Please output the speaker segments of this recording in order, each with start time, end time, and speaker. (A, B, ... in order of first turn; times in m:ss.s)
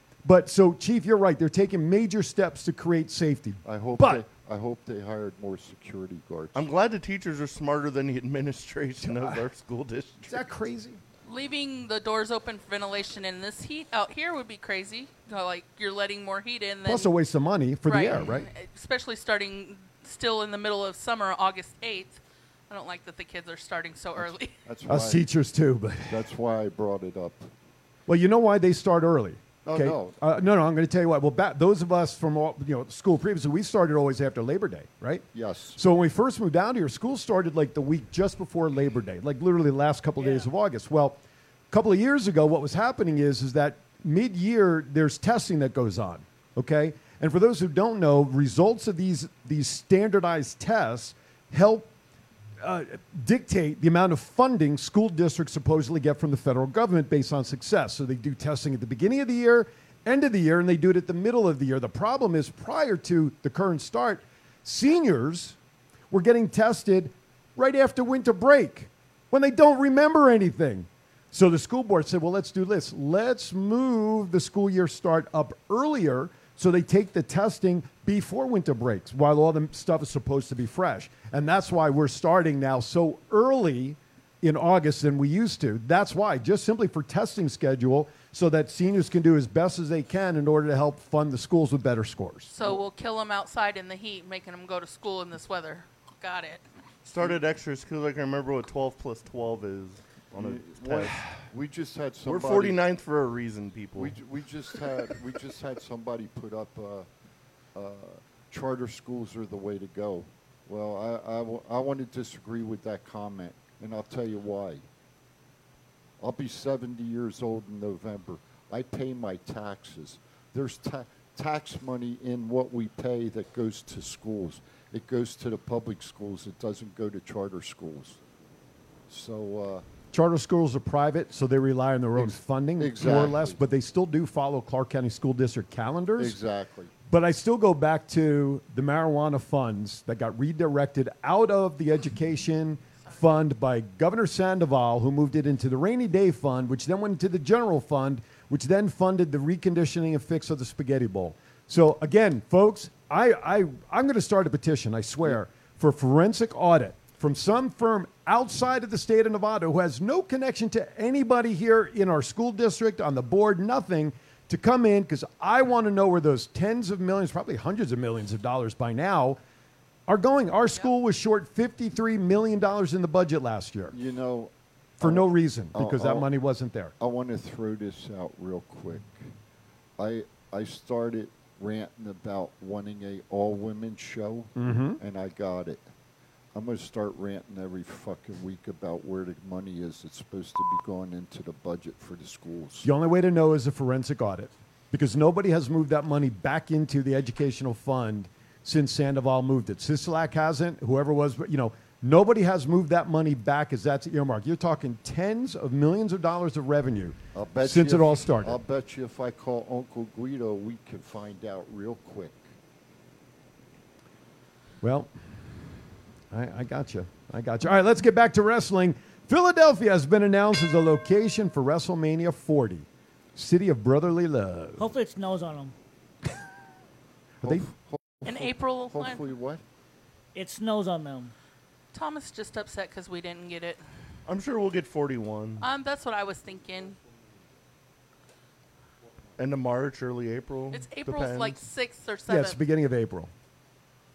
0:00.2-0:04.2 A
0:03.6-0:06.6 B
0:06.5-0:10.5 C
0:09.0-0:09.4 A
0:10.3-0:11.0 A
0:11.3-0:17.1 D
0:16.8-0:18.5 A
0:17.9-0:24.6 D
0:24.2-0:25.2 B
0:24.9-0:26.2 A
0:26.1-0:27.5 B
0:28.1-0:41.2 A
0:29.6-0:30.2 B
0:35.3-0:35.8 B
0:40.2-0:40.5 E
0:41.7-0:51.9 A
0:52.6-1:05.6 A
1:06.1-1:32.5 A
1:32.5-1:36.6 D
1:37.0-1:41.3 C
1:40.3-1:42.8 B
1:42.3-1:44.2 C
1:44.0-1:47.1 B
1:47.8-1:54.9 B
1:56.2-2:08.2 B
2:09.1-2:09.8 B
2:10.1-2:16.4 A
2:12.2-2:13.6 B
2:16.2-2:16.9 B
2:17.1-2:49.4 A
2:50.1-2:54.0 A
2:53.9-2:56.3 B
2:55.0-2:56.9 A
2:57.0-2:59.2 B
3:00.0-3:05.8 B
3:04.6-3:05.0 A
3:06.5-3:12.9 B
3:12.8-3:28.6 A
3:27.4-3:32.4 B
3:34.8-3:35.7 A
3:36.3-3:44.9 A
3:44.8-3:45.7 E
3:47.4-3:49.6 B
3:48.2-3:49.3 D
3:50.4-3:51.3 E
3:51.9-3:53.8 D
3:54.3-3:55.7 C
3:55.6-3:57.0 D
3:59.4-4:01.6 C
4:00.7-4:02.6 D
4:02.3-4:03.3 A